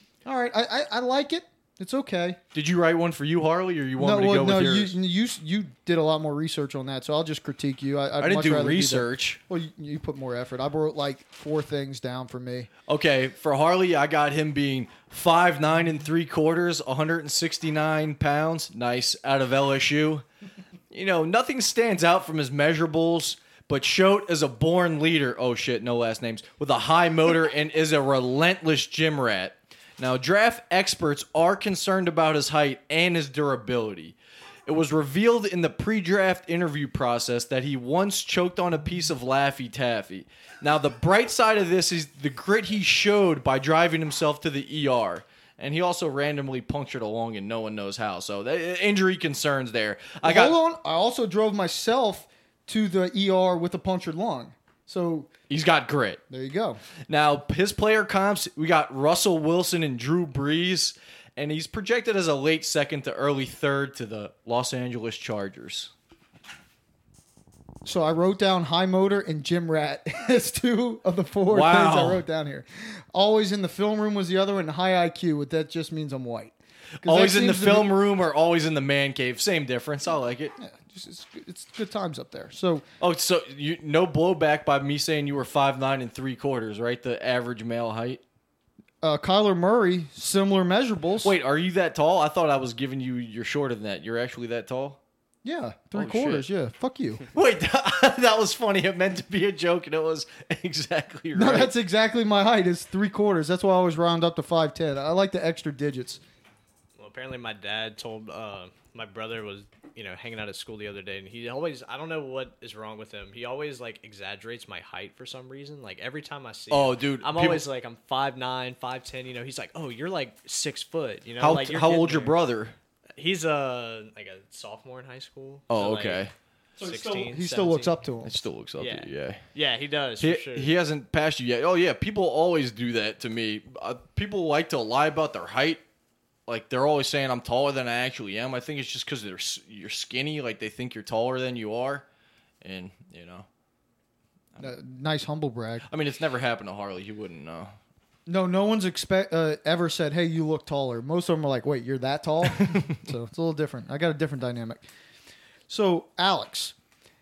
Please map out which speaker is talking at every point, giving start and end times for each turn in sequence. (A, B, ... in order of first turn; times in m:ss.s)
0:00.2-0:02.4 A
0:02.5-0:05.0 B
0:04.0-0:12.7 A
0:08.2-0:09.4 B
0:12.9-0:20.2 B
0:20.9-0:34.1 B
0:34.6-0:50.6 B
0:50.2-0:55.3 A
0:55.5-0:56.2 B
0:56.3-0:56.8 A
0:57.1-1:05.9 B
1:07.8-1:18.0 A
1:11.5-1:12.2 B
1:17.0-1:20.5 B
1:20.6-1:22.8 A
1:23.0-1:28.2 B
1:29.0-1:31.3 A
1:31.2-1:35.0 B
1:35.4-1:37.2 A
1:35.9-1:36.5 B
1:37.3-1:41.7 B
1:41.3-1:46.2 A
1:47.0-2:02.3 C
1:56.7-1:57.6 B
2:01.4-2:02.8 B
2:03.2-2:06.3 C
2:05.7-2:06.3 B
2:06.8-2:08.3 A
2:06.8-2:07.9 C
2:08.2-2:09.4 B
2:08.8-2:10.7 C
2:10.2-2:15.8 B
2:16.5-2:22.0 B
2:22.6-2:23.5 B
2:24.6-2:25.9 A
2:25.9-2:27.7 B
2:28.3-2:34.8 A
2:32.6-2:32.9 B
2:35.7-2:36.7 A